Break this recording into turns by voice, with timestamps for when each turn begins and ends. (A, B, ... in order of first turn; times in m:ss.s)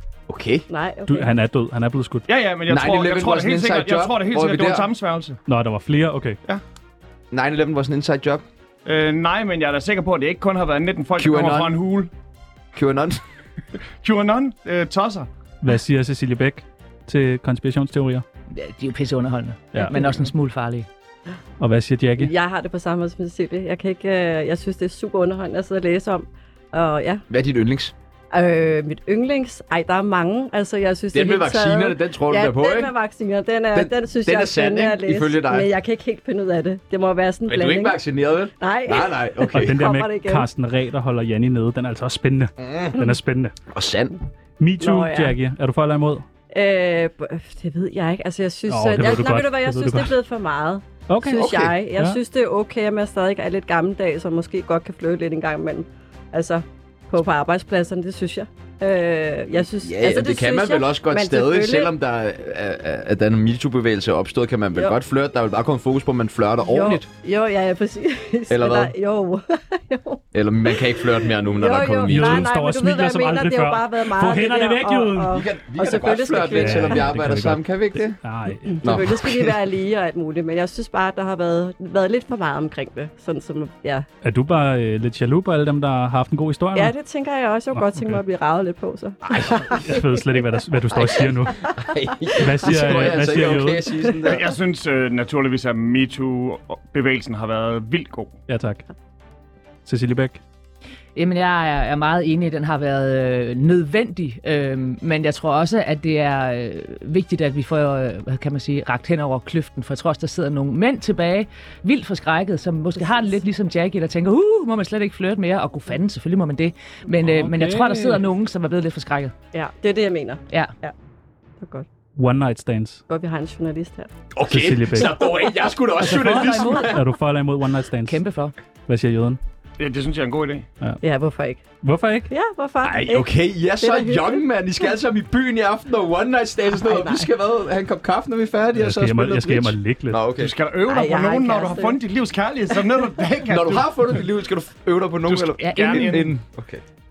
0:00.3-0:00.7 A
0:00.7-0:01.3 B
0:01.1-0:02.2 C
0:02.3-0:05.4 D
0:02.7-0:04.9 A
0:05.5-0:06.4 C
0:07.3-0:08.4 A
0:08.8-0:12.1 D
0:11.2-0:11.8 A
0:12.7-0:13.2 A
0:14.0-0:15.3 D
0:15.6-0:18.2 C
0:18.5-0:20.9 E
0:21.6-0:22.3 C
0:22.2-0:27.2 B
0:27.3-0:27.9 A
0:28.3-0:38.0 B
0:31.1-0:32.9 A
0:33.7-0:35.7 A
0:37.5-0:39.8 A
0:38.6-0:40.4 B
0:39.5-0:43.5 C
0:42.6-0:43.0 A
0:43.7-0:44.2 A
0:44.6-0:46.2 C
0:44.8-0:45.3 B
0:46.5-1:01.9 B
0:48.7-0:50.1 C
0:51.1-0:52.2 C
0:51.3-0:51.7 A
0:59.8-1:07.1 A
1:06.6-1:17.1 B
1:08.5-1:08.9 A
1:10.3-1:12.5 A
1:12.0-1:15.4 C
1:15.3-1:18.2 A
1:16.5-1:18.8 C
1:18.7-1:24.0 B
1:18.8-1:19.5 A
1:24.2-1:26.9 C
1:26.7-1:30.0 B
1:27.7-1:28.2 C
1:29.3-1:29.7 A
1:29.5-1:31.6 C
1:30.9-1:31.8 B
1:31.8-1:34.5 A
1:32.4-1:33.9 C
1:32.6-1:33.0 B
1:34.2-1:38.3 D
1:38.5-1:38.8 C
1:39.8-1:40.4 C
1:41.2-1:59.3 E
1:53.0-1:53.3 B
1:57.2-1:58.2 C
1:59.5-2:00.9 B
2:01.6-2:01.9 B
2:02.2-2:03.0 C
2:03.1-2:04.1 B
2:04.3-2:07.0 A
2:04.5-2:05.2 C
2:06.0-2:06.9 E
2:06.4-2:08.2 C
2:08.0-2:08.5 E
2:08.9-2:09.4 C
2:09.8-2:10.7 D
2:11.0-2:11.6 B
2:11.8-2:12.3 C
2:12.3-2:14.4 B
2:12.8-2:20.5 A
2:16.8-2:17.3 B
2:18.8-2:20.2 C
2:20.4-2:23.9 D
2:20.8-2:22.0 B
2:23.5-2:26.8 A
2:25.3-2:26.4 D
2:25.6-2:26.2 E